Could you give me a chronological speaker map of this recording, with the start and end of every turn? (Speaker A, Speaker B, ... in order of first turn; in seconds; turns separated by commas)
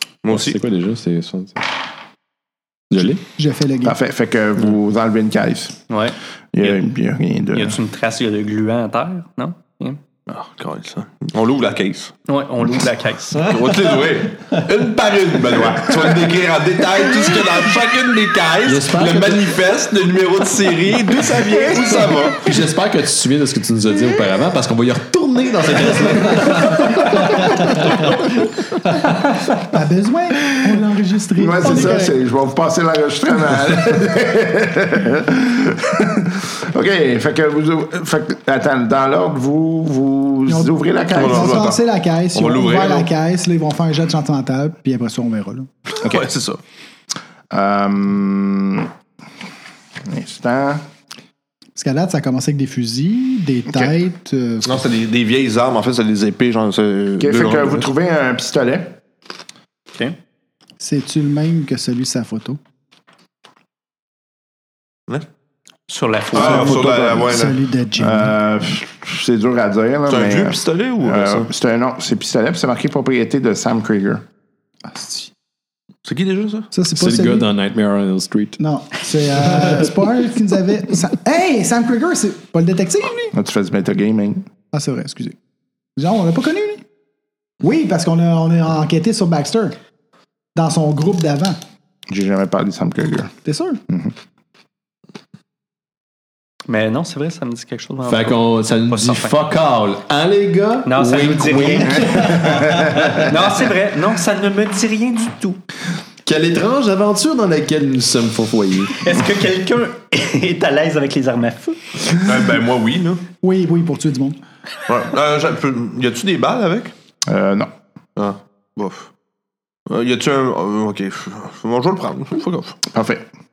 Speaker A: 0.2-0.6, Speaker B: 0.3-1.6, Speaker B: 2.9-3.2, Speaker C: 3.4-4.0, Speaker D: 3.8-5.8, Speaker E: 5.9-6.2, Speaker D: 6.5-7.8, Speaker E: 7.5-10.0, Speaker A: 10.3-12.1, Speaker E: 12.3-13.5, Speaker A: 13.4-22.5, Speaker B: 18.6-19.5, Speaker B: 22.4-28.1, Speaker C: 29.6-32.2, Speaker D: 31.4-41.6, Speaker C: 40.5-45.7, Speaker A: 41.1-41.8, Speaker A: 42.3-43.1, Speaker A: 46.0-46.6, Speaker D: 47.5-48.9, Speaker D: 50.0-50.8, Speaker C: 51.8-54.8, Speaker A: 54.6-57.9, Speaker D: 57.2-59.0, Speaker C: 60.8-62.6, Speaker E: 65.9-67.3, Speaker A: 66.3-67.6, Speaker C: 66.4-68.3, Speaker D: 68.0-74.3, Speaker A: 70.1-71.5, Speaker C: 74.9-75.3, Speaker A: 76.0-76.7, Speaker C: 76.7-77.5, Speaker B: 77.0-78.6, Speaker C: 78.6-83.3, Speaker D: 83.3-84.5, Speaker C: 84.7-85.4, Speaker C: 86.0-86.8, Speaker C: 87.6-89.8, Speaker C: 90.5-91.6, Speaker D: 92.1-93.4, Speaker C: 93.5-93.8, Speaker D: 93.9-94.1, Speaker E: 96.7-99.4, Speaker B: 98.0-103.3, Speaker E: 100.9-105.6, Speaker D: 102.4-103.1, Speaker B: 106.2-109.1, Speaker E: 108.9-111.8, Speaker A: 112.2-113.2, Speaker C: 113.4-114.4, Speaker A: 114.9-116.9, Speaker D: 117.3-117.7, Speaker A: 118.2-119.1, Speaker A: 119.9-122.8, Speaker D: 122.9-123.3